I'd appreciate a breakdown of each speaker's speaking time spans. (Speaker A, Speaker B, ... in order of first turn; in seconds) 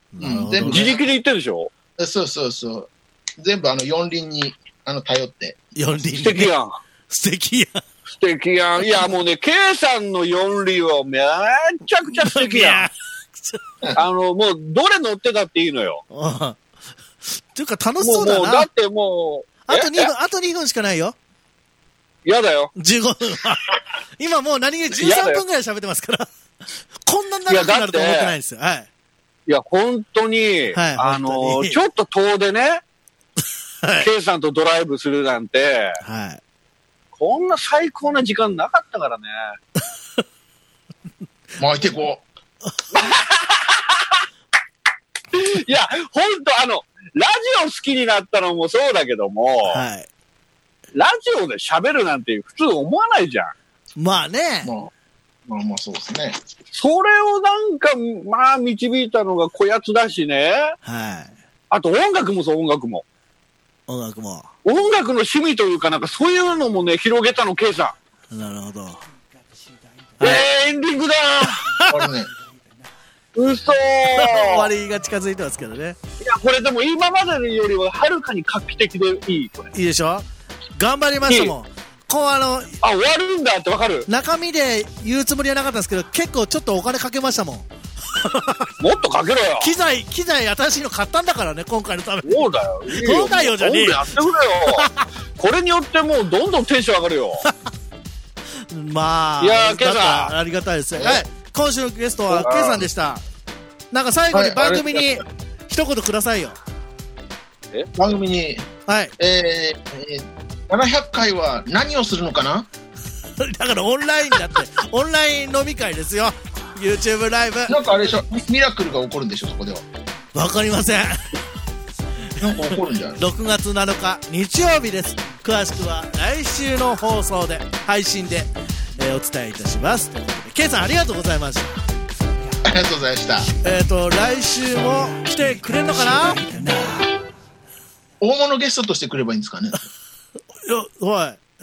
Speaker A: 0.1-0.9, 5.7-6.5, 7.1-7.8, 12.2-13.6, 16.1-16.6, 17.4-18.7, 19.7-21.1, 22.7-23.6, 24.2-26.3, 27.0-28.9, 30.7-31.8, 33.8-34.1, 36.0-36.4, 49.7-50.1, 53.9-54.7, 60.8-61.3, 63.9-64.5, 68.3-69.0, 70.2-70.5, 74.2-76.0, 79.7-80.2, 80.8-82.8, 84.1-87.7, 88.2-88.7, 89.6-95.1, 98.7-103.2, 103.9-106.6, 108.9-109.1, 113.4-117.8, 120.3-121.4, 123.2-131.8, 133.6-136.5, 140.6-141.4
Speaker B: 0.2-1.1, 2.0-5.6, 41.6-42.2, 54.6-54.9, 55.5-56.4, 71.9-72.3, 101.0-101.2, 104.3-105.2, 107.9-108.7, 109.2-112.7, 117.7-119.8, 122.4-123.2, 132.6-133.5, 138.2-139.9
Speaker C: 0.6-1.7, 6.0-6.8, 8.2-12.9, 13.9-16.0, 18.0-20.1, 22.2-22.7, 24.9-25.4, 27.5-28.3, 29.5-32.8, 34.0-36.0, 37.1-39.5, 42.9-44.2, 45.3-49.8, 50.9-53.5, 56.7-60.7, 61.7-63.0, 64.6-67.9, 70.2-71.6, 73.3-74.7, 76.2-79.7, 81.3-81.5, 82.8-84.1, 88.8-89.7, 92.2-97.4, 99.4-100.3, 102.3-102.8